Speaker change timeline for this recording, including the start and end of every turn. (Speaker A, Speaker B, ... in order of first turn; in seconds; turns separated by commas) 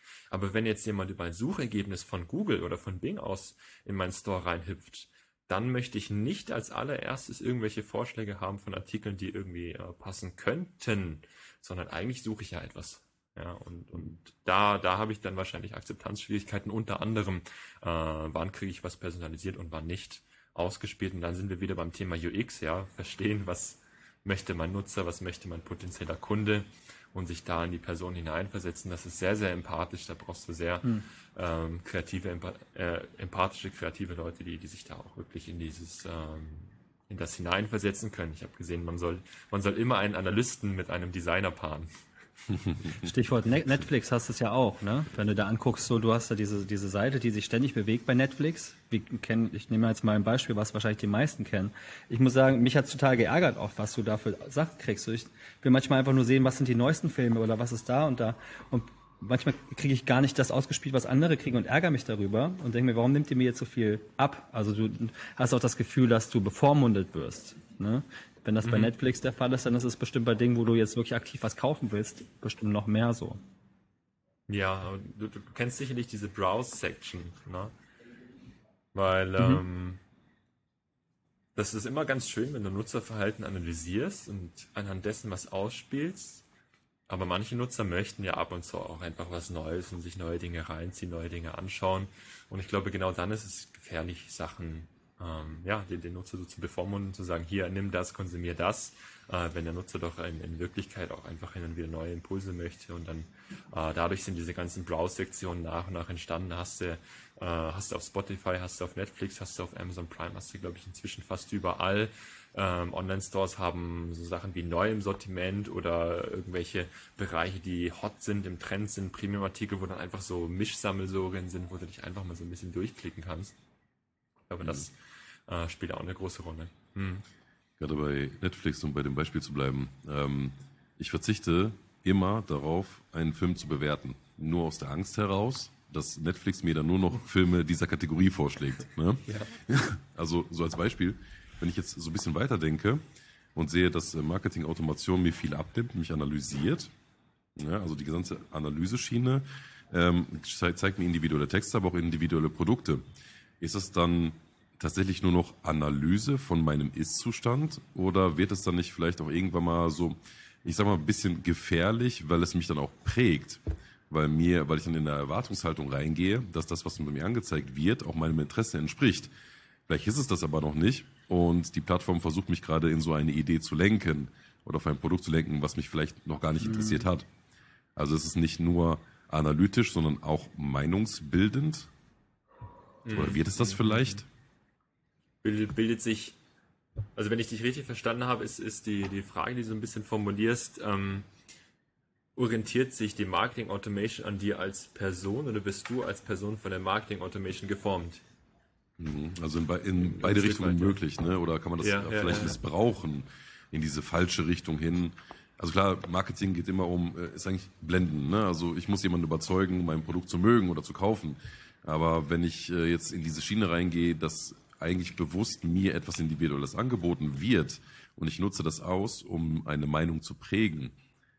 Speaker A: 0.3-41.9, Speaker B: 43.0-73.4, Speaker A: 68.6-68.9, Speaker A: 74.5-77.7, Speaker A: 78.9-80.0, Speaker B: 79.4-79.6, Speaker A: 81.6-86.5, Speaker A: 87.1-123.5, Speaker A: 124.5-127.2, Speaker C: 127.8-143.0, Speaker A: 139.3-139.5, Speaker C: 143.6-146.9, Speaker C: 147.6-153.0, Speaker C: 153.6-169.3, Speaker C: 169.9-177.3, Speaker B: 176.6-177.0, Speaker C: 178.0-181.9, Speaker A: 183.1-184.2, Speaker C: 183.1-184.3, Speaker A: 185.4-186.4, Speaker A: 187.2-191.3, Speaker A: 192.4-198.2, Speaker C: 199.0-221.0, Speaker A: 200.0-201.0, Speaker A: 201.8-202.6